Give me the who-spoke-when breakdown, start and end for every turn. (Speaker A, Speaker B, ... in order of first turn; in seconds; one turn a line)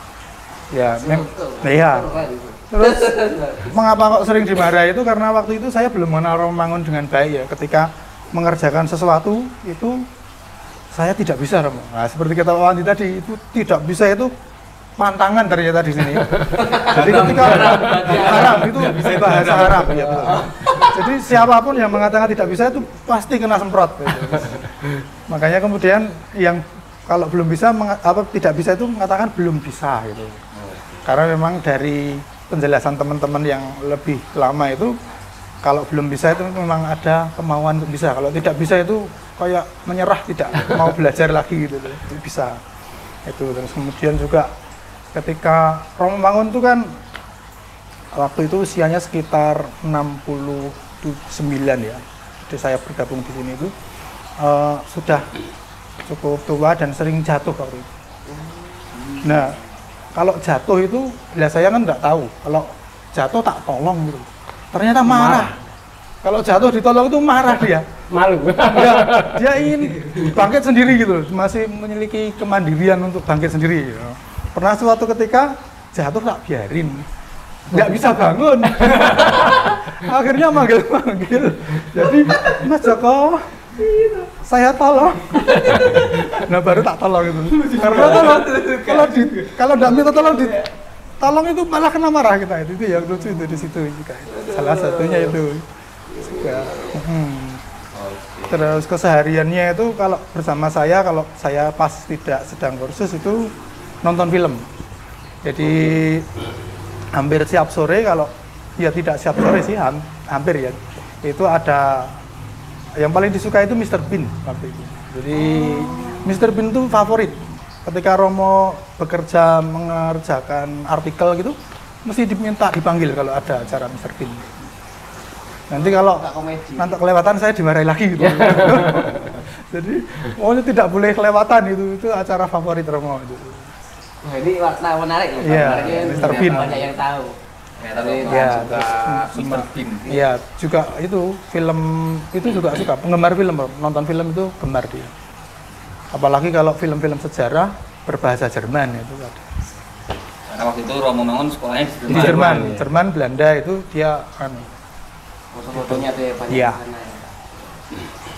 Speaker A: 0.7-10.0
Speaker B: 1.0-3.7
Speaker A: 10.9-14.3
Speaker A: 15.0-24.6
Speaker B: 16.5-18.3
Speaker C: 16.9-20.7
Speaker B: 20.3-20.9
Speaker A: 25.3-30.4
Speaker C: 30.5-31.1
Speaker A: 31.0-34.9
Speaker A: 35.6-42.6
Speaker A: 43.2-44.5
Speaker A: 45.1-46.9
Speaker A: 48.1-53.7
Speaker A: 54.4-55.3
Speaker A: 56.0-57.9
Speaker C: 58.9-59.5
Speaker A: 59.2-59.6
Speaker A: 60.1-65.6
Speaker D: 65.0-65.6
Speaker A: 66.2-67.8
Speaker D: 68.1-69.4
Speaker A: 68.6-77.0
Speaker A: 77.7-83.7
Speaker A: 84.3-90.7
Speaker C: 85.4-86.3
Speaker C: 87.5-90.6
Speaker A: 91.2-95.6
Speaker C: 93.3-93.7
Speaker A: 96.2-97.6
Speaker C: 97.9-98.8
Speaker A: 98.5-103.5
Speaker A: 104.0-104.6
Speaker A: 105.4-106.3
Speaker C: 105.6-106.0
Speaker A: 107.1-112.1
Speaker A: 113.0-124.5
Speaker A: 125.7-126.2
Speaker B: 125.7-127.0
Speaker A: 126.8-133.7
Speaker D: 128.3-129.0
Speaker B: 134.2-137.3
Speaker A: 135.4-136.9
Speaker C: 135.9-136.3
Speaker C: 137.8-140.2
Speaker B: 138.0-138.9
Speaker A: 138.2-145.1
Speaker A: 146.1-149.4
Speaker C: 150.5-152.8
Speaker A: 152.1-154.7
Speaker B: 155.5-157.8
Speaker A: 155.7-156.8